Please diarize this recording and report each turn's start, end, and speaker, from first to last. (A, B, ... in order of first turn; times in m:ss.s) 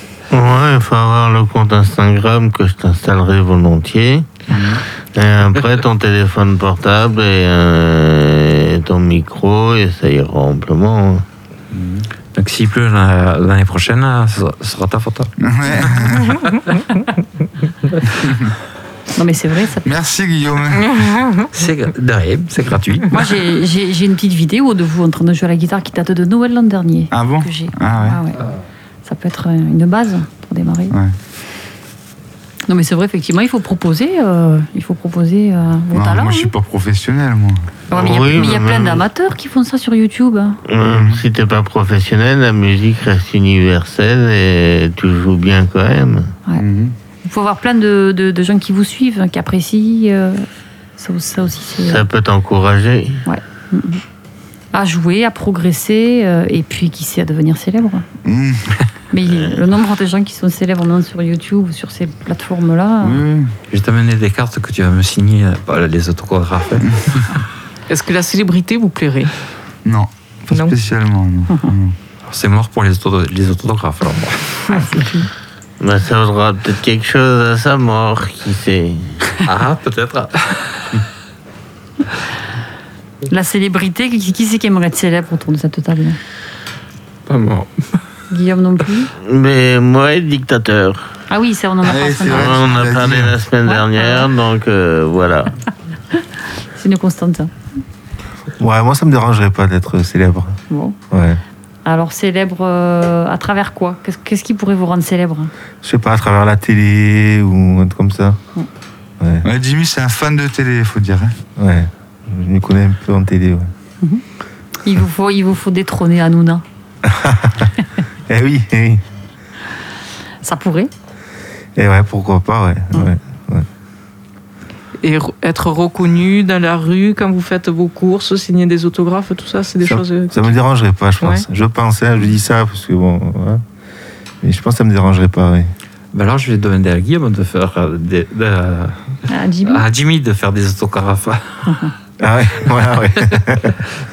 0:00.3-0:04.4 A
0:04.5-0:04.8 B
0:05.1-0:11.2 A
0:11.7-0:16.0 C
0:15.4-0:16.4 B
0:18.2-0:18.5 B
0:19.2-0:19.9 D
0:19.8-0:21.0 B
0:20.8-0:21.5 E
0:21.5-0:23.2 C
0:23.1-0:28.4 D
0:27.1-0:28.2 B
0:29.0-0:30.9 D
0:30.9-0:31.2 B
0:32.7-0:36.5 D
0:35.9-0:37.6 B
0:37.9-0:40.6 D
0:37.9-0:39.0 A
0:40.7-0:46.3 A
0:40.8-0:41.2 B
0:46.6-0:46.9 B
0:47.2-0:52.0 D
0:51.8-0:53.2 A
0:53.2-0:54.0 D
0:54.7-0:58.0 D
0:58.2-0:58.8 B
0:59.1-1:03.2 D
1:03.0-1:03.5 B
1:03.7-1:07.2 C
1:06.8-1:07.2 B
1:07.9-1:09.3 E
1:09.8-1:12.0 B
1:10.5-1:10.8 E
1:12.3-1:14.9 C
1:14.7-1:15.3 D
1:15.8-1:19.2 A
1:19.4-1:21.0 C
1:23.3-1:26.2 D
1:27.3-1:28.0 C
1:28.3-1:29.1 D
1:29.2-1:31.1 A
1:31.3-1:32.7 D
1:31.8-1:33.4 B
1:32.3-1:35.5 A
1:33.6-1:34.3 D
1:36.7-1:37.5 D
1:38.6-1:40.6 F
1:40.7-1:41.0 D
1:41.1-1:41.4 F
1:41.8-1:45.5 D
1:45.8-1:48.4 F
1:49.2-1:49.5 F
1:49.4-1:51.4 B
1:51.6-1:53.7 F
1:54.8-1:56.6 D
1:57.0-1:57.7 F
1:58.3-1:59.0 F
2:00.4-2:00.9 D
2:01.8-2:03.6 F
2:05.0-2:10.5 E
2:09.8-2:13.6 F
2:11.2-2:11.4 E
2:14.4-2:15.7 F
2:16.1-2:21.8 C
2:19.3-2:19.8 D
2:21.7-2:21.9 D
2:22.2-2:23.8 F